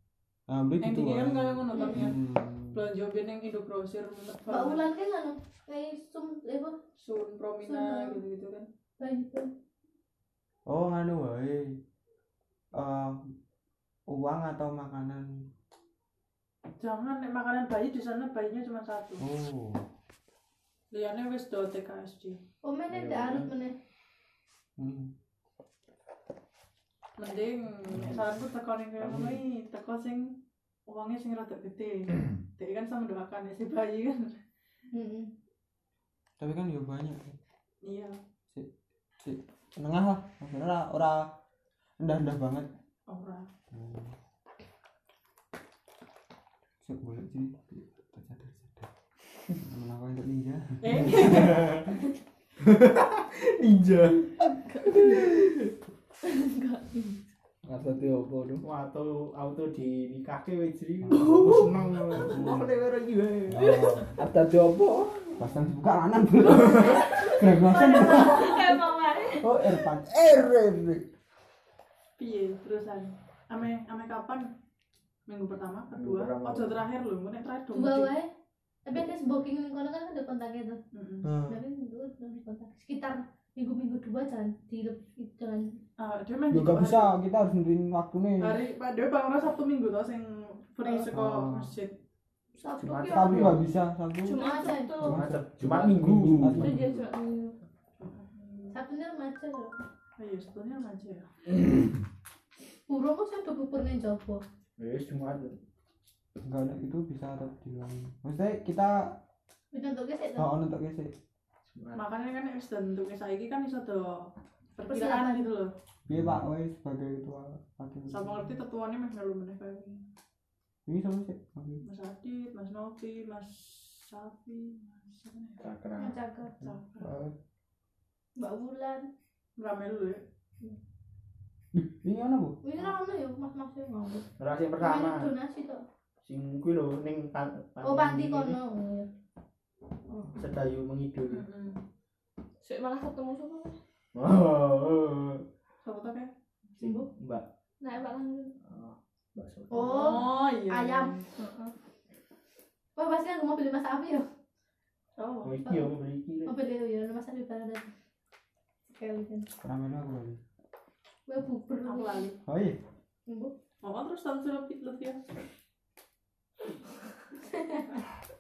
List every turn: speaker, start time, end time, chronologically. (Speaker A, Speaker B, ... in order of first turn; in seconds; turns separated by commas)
Speaker A: 0.5-2.8, Speaker B: 0.8-2.2, Speaker C: 1.7-2.0, Speaker B: 2.7-4.8, Speaker C: 4.5-6.8, Speaker B: 7.0-8.7, Speaker C: 7.6-8.2, Speaker C: 9.0-9.5, Speaker A: 10.7-11.8, Speaker A: 12.8-13.2, Speaker A: 14.1-15.3, Speaker B: 16.8-19.2, Speaker A: 19.2-19.9, Speaker B: 20.9-22.4, Speaker C: 22.6-23.8, Speaker D: 22.9-23.5, Speaker A: 24.8-25.1, Speaker B: 27.2-30.4, Speaker D: 27.9-28.3, Speaker D: 29.0-29.4, Speaker B: 30.9-34.4, Speaker C: 34.9-35.3, Speaker A: 36.4-37.3, Speaker B: 37.8-38.2, Speaker A: 39.2-41.2, Speaker A: 42.0-42.7, Speaker B: 43.1-43.5, Speaker A: 43.7-44.1, Speaker A: 46.8-48.9, Speaker A: 49.6-51.4, Speaker B: 50.8-51.7, Speaker D: 51.1-52.0, Speaker D: 52.6-55.5, Speaker E: 56.3-56.7, Speaker F: 57.6-58.6, Speaker D: 58.6-63.6, Speaker A: 61.9-62.7, Speaker A: 63.5-64.2, Speaker F: 64.2-65.2, Speaker A: 65.4-68.7, Speaker B: 68.0-68.4, Speaker E: 68.2-69.4, Speaker A: 69.4-71.0, Speaker B: 72.2-74.5, Speaker B: 75.3-78.1, Speaker D: 75.9-76.8, Speaker C: 77.7-78.3, Speaker C: 78.8-80.8, Speaker B: 80.9-81.3, Speaker A: 81.2-81.6, Speaker C: 81.5-85.7, Speaker B: 86.0-87.1, Speaker A: 86.5-88.6, Speaker B: 88.4-91.9, Speaker A: 91.1-91.7, Speaker C: 92.6-93.5, Speaker D: 92.8-93.6, Speaker A: 93.1-94.4, Speaker E: 94.3-95.0, Speaker C: 94.3-95.0, Speaker A: 95.0-96.8, Speaker D: 95.0-95.9, Speaker F: 95.6-96.7, Speaker E: 96.8-97.5, Speaker B: 98.0-98.8, Speaker C: 98.7-99.8, Speaker B: 100.2-101.3, Speaker C: 102.9-104.4, Speaker D: 104.8-105.6, Speaker A: 106.4-109.2, Speaker C: 109.7-110.5, Speaker A: 110.4-111.1, Speaker D: 111.7-112.0, Speaker B: 111.9-115.7, Speaker C: 114.8-115.5, Speaker A: 116.1-118.4, Speaker F: 116.1-116.4, Speaker B: 118.1-120.0, Speaker A: 120.9-121.8, Speaker B: 121.8-125.6, Speaker D: 125.6-126.2, Speaker C: 126.0-126.5, Speaker B: 126.6-127.1, Speaker A: 127.0-127.3, Speaker C: 128.3-129.1, Speaker B: 129.6-130.2, Speaker A: 131.7-132.6, Speaker C: 132.6-135.8, Speaker D: 134.4-135.3, Speaker D: 136.2-138.6, Speaker C: 137.8-139.1, Speaker D: 140.4-141.4, Speaker B: 141.2-141.8, Speaker E: 142.6-143.8, Speaker D: 144.1-145.4, Speaker B: 145.8-146.3, Speaker D: 146.8-147.4, Speaker C: 146.8-147.1, Speaker E: 147.8-148.5, Speaker D: 148.6-150.2, Speaker C: 149.7-151.2, Speaker B: 149.9-151.3, Speaker C: 152.9-154.3, Speaker B: 155.2-155.5, Speaker D: 155.4-156.5, Speaker C: 155.6-155.9, Speaker C: 156.4-157.9, Speaker C: 158.9-159.5, Speaker A: 159.6-160.4, Speaker C: 161.3-162.3, Speaker B: 161.8-162.3, Speaker A: 162.4-162.8, Speaker C: 163.3-163.5, Speaker B: 163.8-165.2, Speaker C: 167.4-167.8